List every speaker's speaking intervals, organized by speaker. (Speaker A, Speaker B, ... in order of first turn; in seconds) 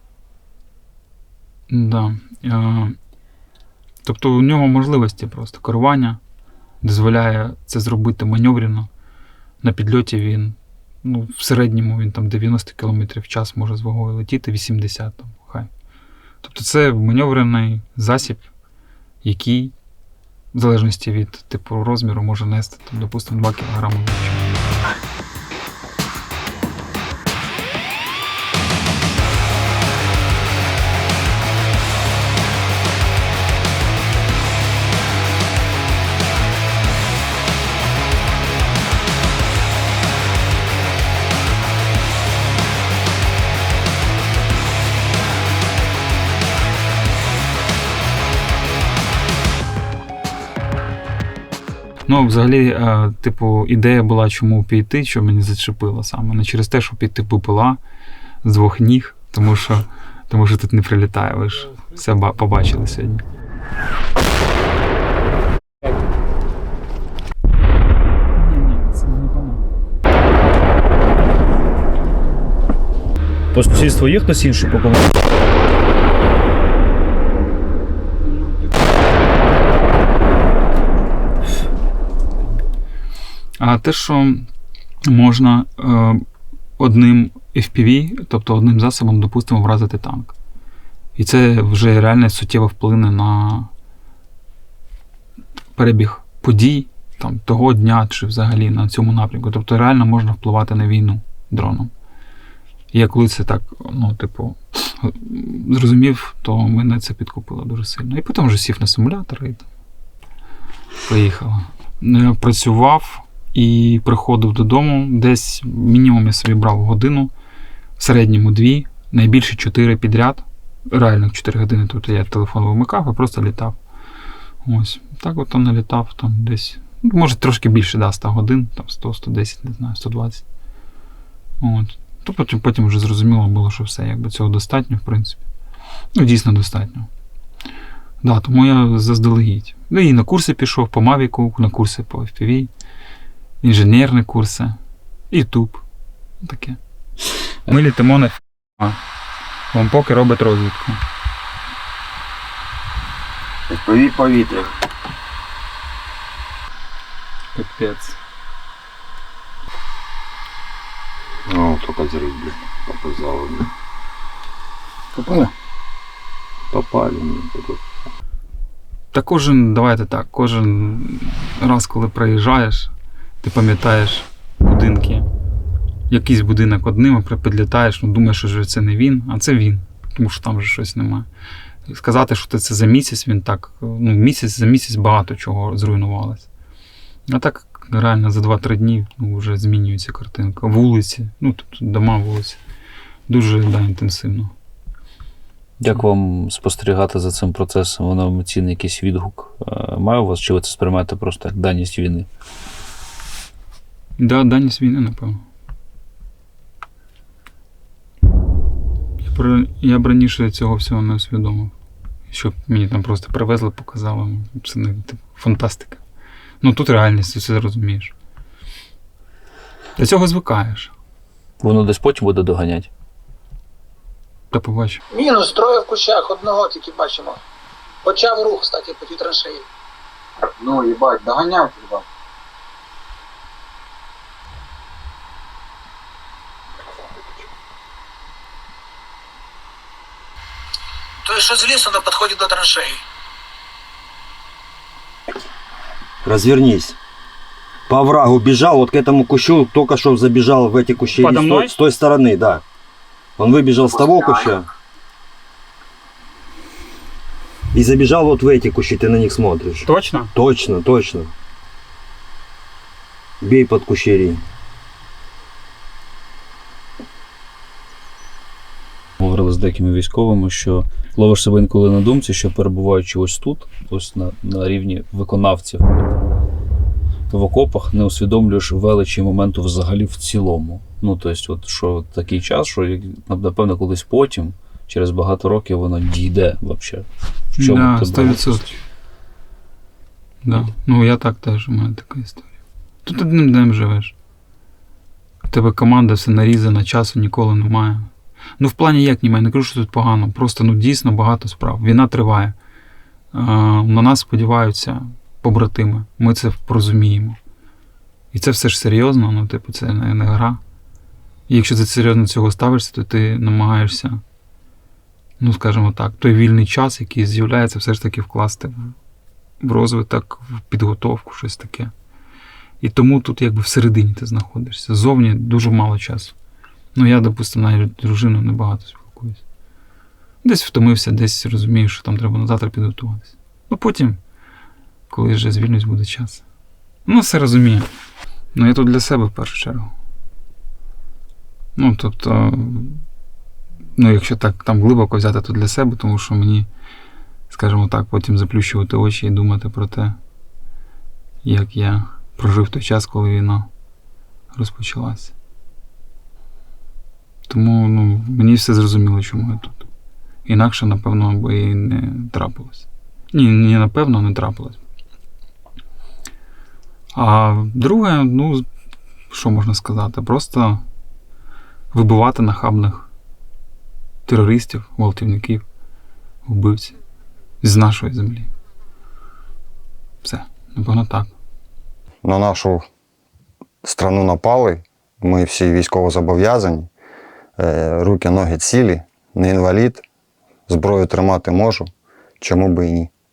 Speaker A: 1.7-3.0, 4.0-6.2, 6.8-8.9, 9.6-15.7, 16.4-18.5, 19.2-19.7, 20.5-24.9, 52.0-57.8, 58.4-63.2, 68.3-69.6, 83.6-84.5, 85.0-86.2, 86.8-90.3, 91.2-93.7, 95.7-101.9, 102.9-109.7, 111.0-117.3, 118.0-123.8, 124.6-130.4, 131.6-135.4, 136.1-137.1, 138.2-142.7, 143.6-144.8, 145.3-145.8, 146.4-146.8, 147.7-149.0, 149.7-151.0, 157.5-158.2, 169.1-175.3, 176.1-181.3, 181.9-186.5, 187.3-192.6, 193.3-194.5, 204.2-205.4, 209.2-211.7, 212.3-216.0, 216.6-218.1, 219.9-220.9, 224.5-225.0, 251.2-251.7, 259.8-260.3, 287.6-288.8, 290.4-292.4, 293.0-294.1, 295.5-302.6, 303.3-307.4, 308.3-310.6, 311.5-314.2, 315.4-318.9, 319.6-321.9, 322.8-326.3, 326.9-329.4, 330.4-334.2, 335.1-336.4, 337.1-337.9, 338.5-339.9, 341.8-343.0, 343.9-346.7, 347.5-350.2, 351.4-353.7, 354.5-355.3, 357.5-359.9, 360.4-364.8, 367.1-368.7, 369.3-370.8, 371.9-373.1, 374.2-375.6, 376.4-377.0, 377.6-378.5, 380.2-381.3
Speaker B: 73.5-75.2, 195.8-202.3, 221.6-222.9, 269.2-276.1, 277.3-288.4
Speaker C: 153.7-154.7, 161.5-163.7, 166.7-167.8, 246.2-247.0, 247.9-252.6, 253.4-254.7, 257.7-261.3, 263.4-264.4
Speaker D: 225.2-227.4, 228.0-229.6, 230.6-232.0, 241.2-243.0
Speaker E: 382.2-382.8, 383.8-386.9, 387.6-390.0, 390.7-391.9, 392.4-393.1